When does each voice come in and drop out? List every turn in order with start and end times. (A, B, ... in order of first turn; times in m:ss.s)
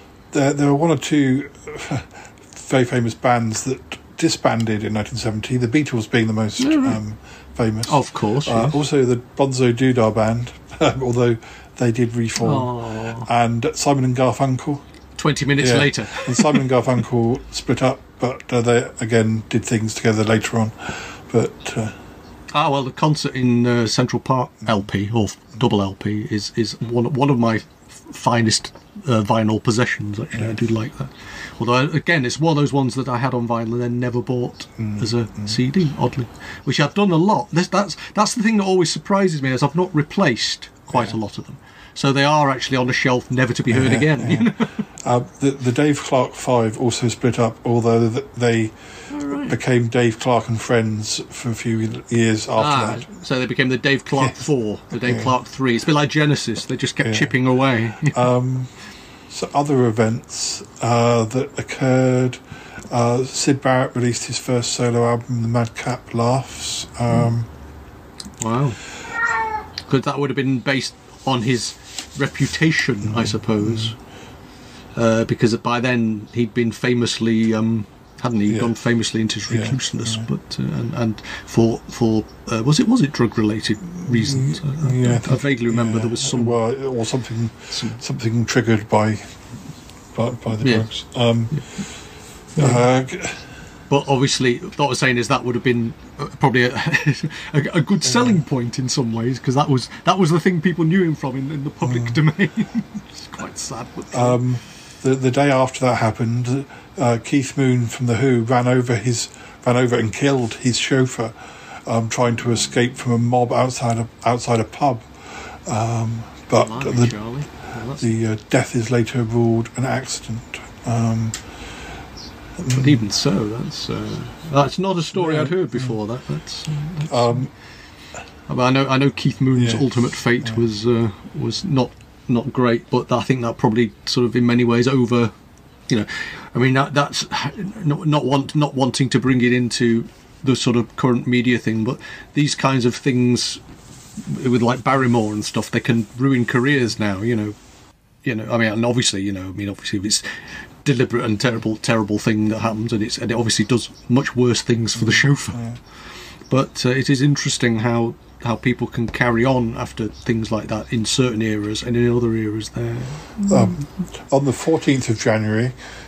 0:00.3-0:14.8 A
0:06.6-0:07.0 B
0:07.9-0:08.8 B
0:12.4-0:13.3 B
0:15.2-0:16.6 B
0:15.6-0:22.0 A
0:22.5-0:44.8 B
0:34.8-0:35.6 A
0:40.9-0:41.2 A
0:43.7-0:48.8 A
0:49.1-0:49.6 B
0:49.3-0:53.1 A
0:52.6-0:58.2 B
0:54.2-0:55.3 A
0:57.0-0:57.3 A
0:58.1-0:58.7 A
0:59.3-1:07.5 A
1:08.4-1:08.8 B
1:09.9-1:14.0 B
1:13.0-1:14.0 A
1:15.0-1:26.6 B
1:19.5-1:20.3 A
1:23.9-1:29.5 A
1:27.7-1:28.0 B
1:30.1-1:31.8 A
1:30.6-1:30.9 B
1:31.5-1:31.8 B
1:32.6-1:32.8 B
1:32.6-1:33.5 A
1:33.9-1:44.4 B
1:38.0-1:38.4 A
1:41.8-1:42.2 A
1:44.1-1:57.2 A
1:56.6-1:58.1 B
1:58.0-2:01.4 A
2:02.6-2:03.1 A
2:02.7-2:07.5 B
2:05.1-2:06.0 A
2:07.1-2:07.5 A
2:08.5-2:15.3 B
2:09.6-2:09.9 A
2:15.9-2:23.6 B
2:24.2-2:27.6 B
2:28.2-2:30.3 B
2:30.8-2:35.6 B
2:35.0-2:35.8 A
2:36.5-2:43.8 B
2:43.5-2:45.8 A